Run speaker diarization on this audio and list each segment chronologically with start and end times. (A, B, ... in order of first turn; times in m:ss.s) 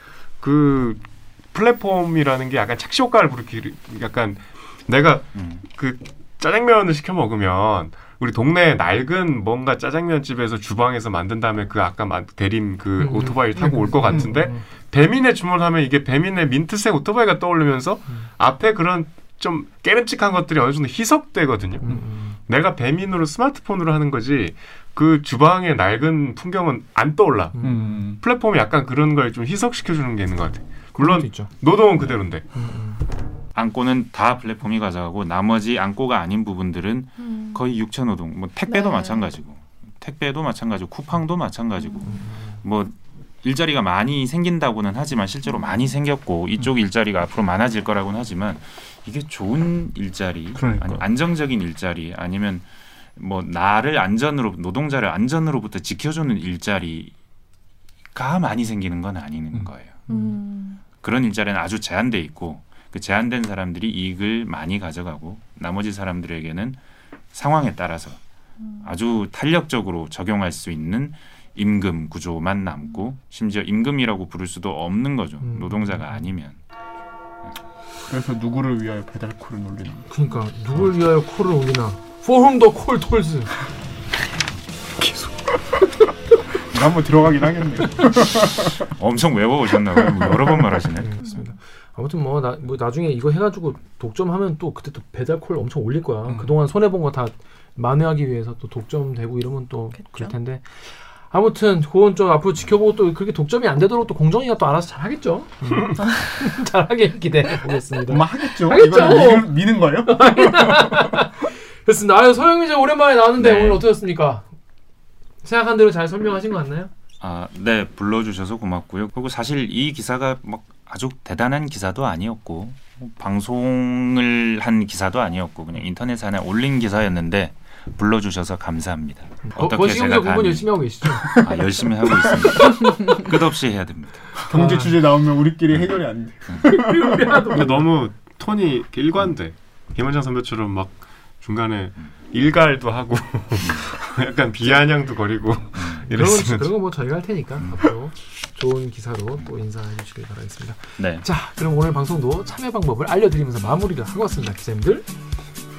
0:00.4-0:32.5 A
0:05.3-0:05.6 B
0:13.0-0:14.3 C
0:14.1-0:14.5 D
0:21.8-0:22.4 C
0:27.5-0:28.0 C
0:27.6-0:28.2 D
0:31.0-0:31.5 C
0:32.6-0:33.0 C
0:33.6-0:52.7 B
0:37.2-0:37.6 E
0:38.7-0:39.3 E
0:41.8-0:42.1 E
0:42.0-0:42.6 C
0:50.6-0:51.0 D
0:53.2-0:57.1 B
0:58.2-1:00.0 B
1:00.1-1:00.8 E
1:01.0-1:06.8 B
1:07.3-1:08.2 B
1:08.8-1:16.6 B
1:15.4-1:16.3 C
1:18.1-1:20.1 D
1:20.1-1:23.6 C
1:25.0-1:25.6 A
1:26.7-1:28.9 D
1:28.8-1:31.2 B
1:30.0-1:30.5 D
1:31.0-1:40.7 C
1:36.3-1:36.5 D
1:40.0-1:40.3 E
1:41.3-1:54.5 C
1:48.1-1:51.1 D
1:53.4-1:53.8 B
1:55.4-1:56.9 C
1:57.2-2:10.7 B
2:09.5-2:11.4 C
2:11.2-2:14.5 B
2:12.3-2:12.5 D
2:14.5-2:17.3 D
2:14.5-2:15.0 C
2:16.6-2:17.9 C
2:17.5-2:26.7 A
2:25.8-2:26.1 B
2:26.1-2:35.1 C
2:31.0-2:31.2 B